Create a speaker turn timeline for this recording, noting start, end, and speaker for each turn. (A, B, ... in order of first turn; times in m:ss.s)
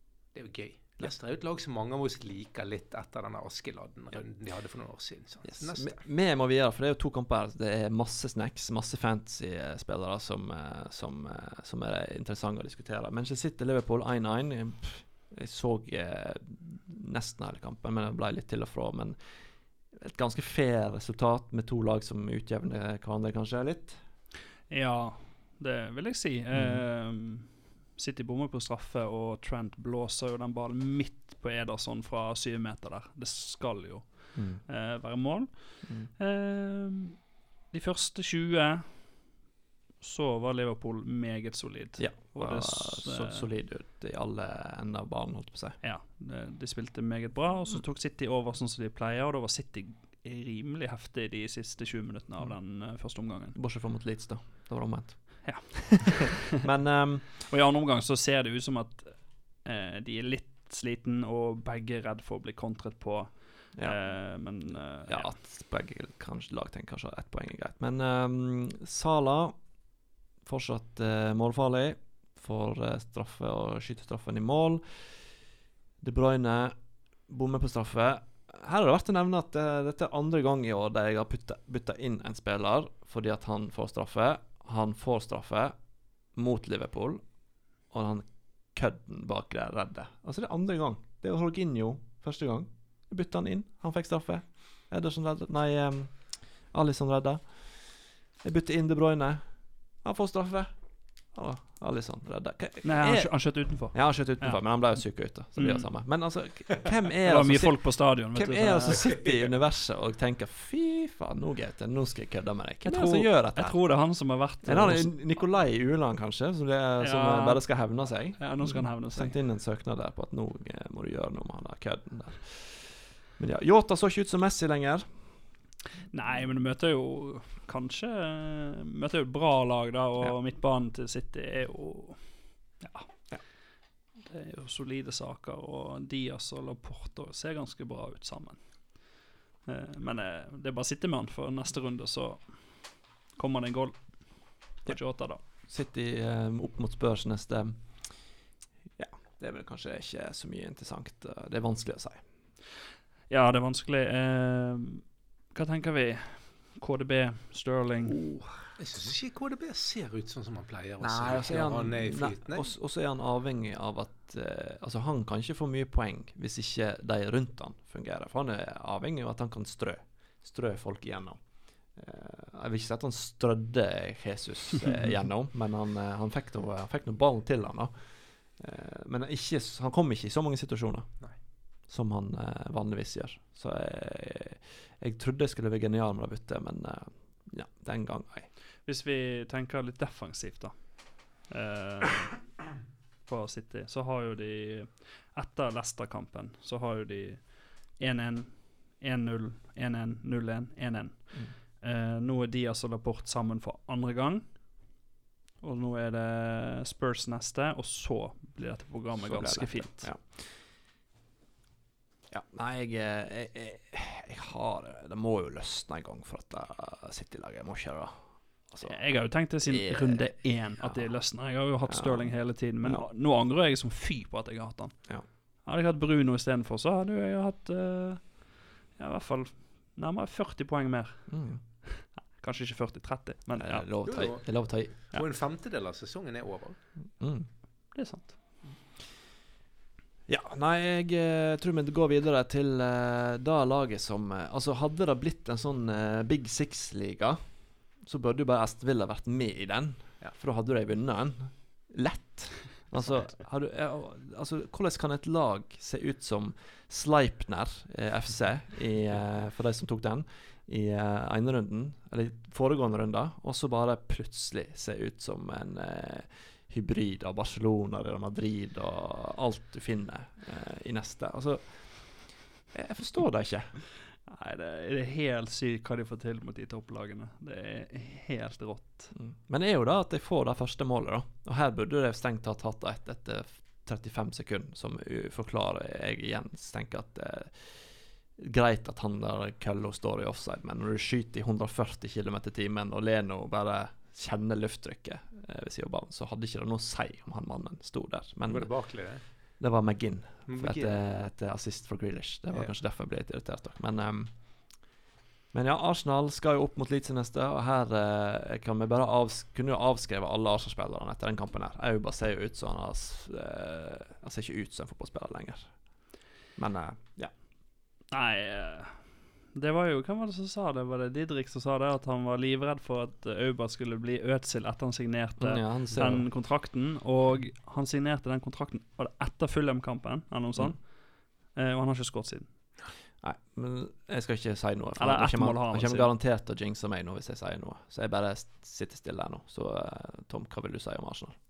0:00.3-0:06.0 A
0:05.4-0:19.2 B
0:19.9-0:24.0 B
0:24.7-0:39.3 C
0:26.5-0:26.8 B
0:34.3-0:34.6 B
0:35.8-0:36.1 B
0:40.0-0:43.5 C
0:42.0-0:45.8 B
0:45.8-0:53.6 C
0:53.5-0:57.4 B
0:55.4-0:56.4 C
0:57.4-1:05.3 C
1:03.7-1:09.6 B
1:10.4-1:15.2 B
1:16.0-1:16.8 B
1:17.3-1:25.7 B
1:26.3-1:27.2 B
1:27.9-1:40.7 B
1:41.3-1:53.8 B
1:42.8-1:45.9 C
1:47.2-1:49.1 C
1:52.8-1:55.2 C
1:54.6-2:05.2 B
1:57.0-1:59.3 C
2:06.1-2:13.3 C
2:14.2-2:25.4 C
2:24.8-2:28.4 B
2:29.0-2:32.2 B
2:33.3-2:38.3 C
2:38.0-2:38.8 B
2:38.8-2:42.7 A
2:41.0-2:51.4 B
2:51.9-3:01.3 B
3:01.8-3:08.5 B
3:08.8-3:12.6 C
3:13.3-3:24.6 C
3:25.6-3:30.1 C
3:29.2-3:30.6 B
3:32.3-3:41.1 B
3:38.8-3:54.2 C
3:41.8-3:43.1 B
3:51.3-3:51.6 B
3:53.6-3:54.9 B
3:54.0-3:56.8 A
3:57.2-3:57.5 B
3:57.9-3:58.4 C
4:00.3-4:33.8 B
4:34.2-4:39.1 C
4:39.1-4:58.7 B
4:58.5-4:59.2 A
4:59.6-5:04.8 B
5:00.5-5:01.1 A
5:05.5-5:16.0 B
5:16.5-5:17.3 B
5:18.1-5:32.5 C
5:25.4-5:26.3 B
5:33.2-5:41.4 B
5:35.0-5:36.1 C